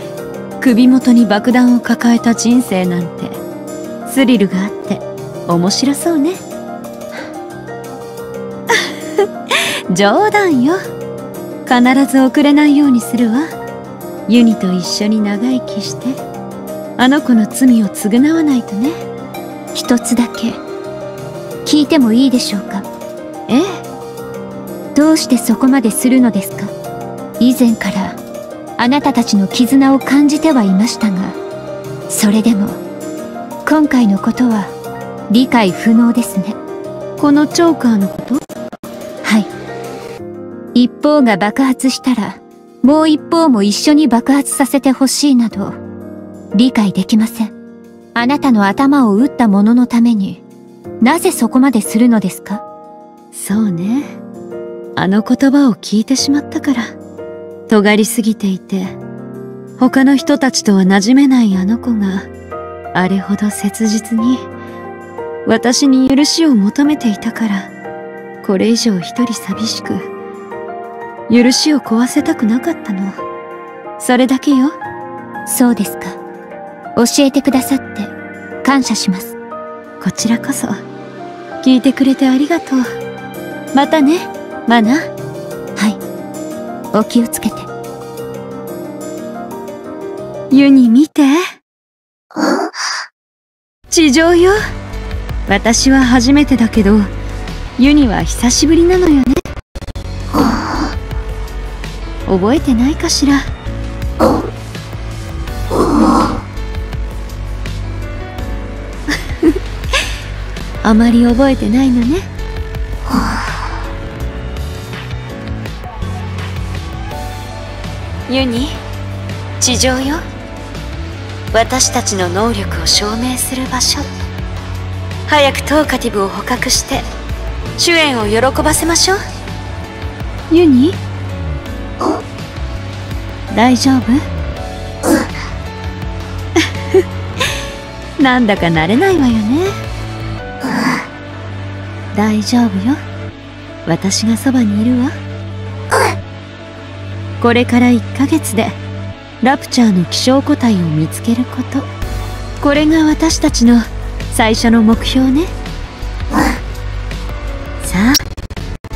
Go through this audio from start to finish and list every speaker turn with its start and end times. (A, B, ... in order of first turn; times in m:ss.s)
0:00.6-0:03.4 A
0:04.0-0:06.4 A
0:08.7-0:10.8 A
0:11.7-0:13.5 A
0:14.3-0:16.2 A
0:17.0-0:19.0 A
0:19.7-0:20.6 B
0:21.6-0:22.9 B
0:25.0-0:26.7 B
0:27.4-0:28.2 B
0:28.8-0:31.4 B
0:32.1-0:32.8 B
0:33.7-0:34.8 B
0:35.3-0:36.6 B
0:37.2-0:38.4 A
0:39.2-0:39.5 B
0:40.8-0:45.8 B
0:46.5-0:47.5 B
0:48.2-0:50.4 B
0:51.0-0:52.6 B
0:53.3-0:54.2 A
0:55.0-0:57.0 A
0:57.7-0:59.0 A
0:59.8-1:02.3 A
1:02.9-1:04.5 A
1:05.5-1:07.7 A
1:08.4-1:10.1 A
1:11.3-1:13.2 A
1:14.0-1:14.8 A
1:15.5-1:16.2 B
1:17.0-1:19.4 B
1:20.0-1:20.8 A
1:21.6-1:22.8 A
1:23.7-1:25.1 A
1:26.9-1:27.7 B
1:30.5-1:31.5 A
1:33.9-1:34.6 A
1:35.5-1:37.1 A
1:37.8-1:39.4 A
1:42.3-1:43.5 A
1:50.8-1:52.3 A
1:58.3-1:58.8 A
1:59.6-2:00.2 A
2:01.5-2:04.1 A
2:05.3-2:07.1 A
2:07.8-2:09.2 A
2:10.5-2:11.0 A
2:13.5-2:14.2 A
2:16.6-2:17.0 A
2:18.2-2:19.7 A
2:22.1-2:23.0 A
2:23.8-2:25.1 A
2:27.4-2:28.8 A
2:29.4-2:31.9 A
2:32.6-2:35.5 A
2:37.8-2:38.2 A